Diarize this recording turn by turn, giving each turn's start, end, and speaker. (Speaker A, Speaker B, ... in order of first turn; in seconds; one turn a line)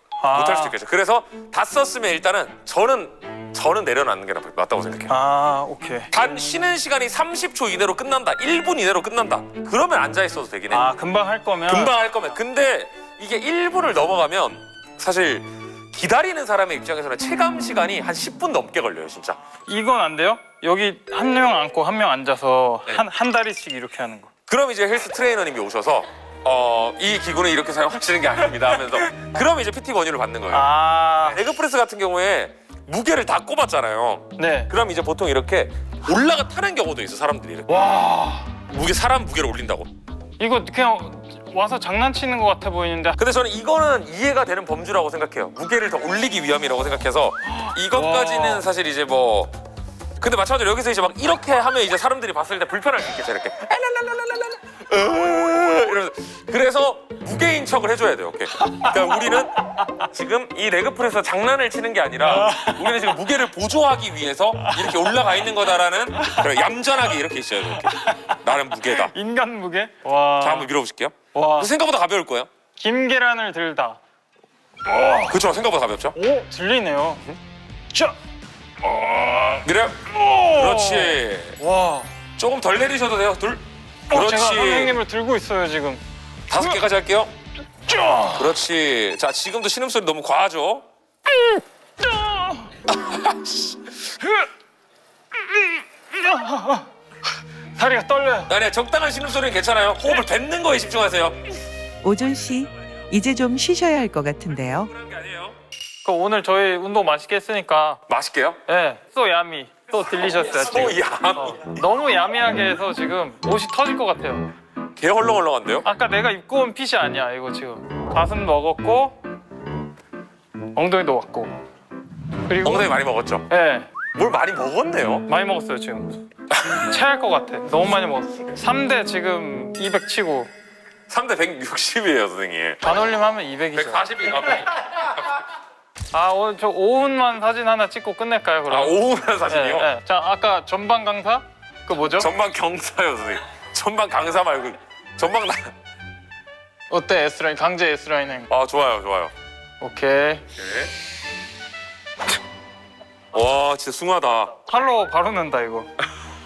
Speaker A: 0.2-0.7
Speaker B: 0.3-5.1
Speaker A: 5.1-6.1
Speaker B: 6.1-10.9
Speaker A: 10.7-12.0
Speaker B: 11.7-19.4
Speaker A: 19.6-24.3
Speaker B: 24.5-30.7
Speaker A: 30.5-31.4
Speaker B: 31.2-37.9
Speaker A: 34.4-34.7
Speaker A: 37.7-38.5
Speaker B: 38.7-39.9
Speaker A: 40.4-43.2
Speaker B: 43.2-49.5
Speaker A: 47.5-48.6
Speaker B: 50.2-69.1
Speaker A: 58.6-58.9
Speaker A: 62.2-63.1
Speaker A: 64.6-65.2
Speaker A: 66.2-66.5
Speaker A: 67.7-70.7
Speaker B: 70.4-72.5
Speaker A: 71.3-71.7
Speaker A: 72.8-74.0
Speaker A: 74.8-75.4
Speaker B: 75.3-76.2
Speaker A: 76.1-77.2
Speaker A: 78.8-82.1
Speaker B: 79.6-81.6
Speaker B: 82.4-84.9
Speaker A: 84.1-86.0
Speaker B: 86.5-87.3
Speaker A: 87.9-88.5
Speaker B: 88.3-90.8
Speaker A: 91.4-92.8
Speaker B: 92.9-93.7
Speaker A: 95.5-96.9
Speaker A: 97.8-98.5
Speaker B: 98.5-101.4
Speaker C: 102.0-104.9
Speaker B: 104.9-105.5
Speaker A: 106.0-108.0
Speaker B: 108.1-108.6
Speaker A: 108.7-114.5
Speaker B: 110.0-111.8
Speaker B: 115.0-115.8
Speaker A: 115.8-119.2
Speaker A: 120.7-121.6
Speaker A: 122.5-122.9
Speaker B: 122.6-123.5
Speaker A: 123.5-123.9
Speaker B: 124.1-125.2
Speaker A: 125.3-126.2
Speaker B: 126.5-126.8
Speaker A: 126.8-130.5
Speaker B: 131.1-132.8
Speaker A: 132.8-134.1
Speaker B: 133.7-135.4
Speaker A: 136.1-138.9
Speaker B: 138.7-139.9
Speaker A: 139.5-142.3
Speaker B: 142.2-145.7
Speaker A: 146.9-148.5
Speaker B: 148.5-149.3
Speaker A: 149.8-150.4
Speaker B: 150.6-150.9
Speaker B: 153.3-154.5
Speaker A: 154.7-155.9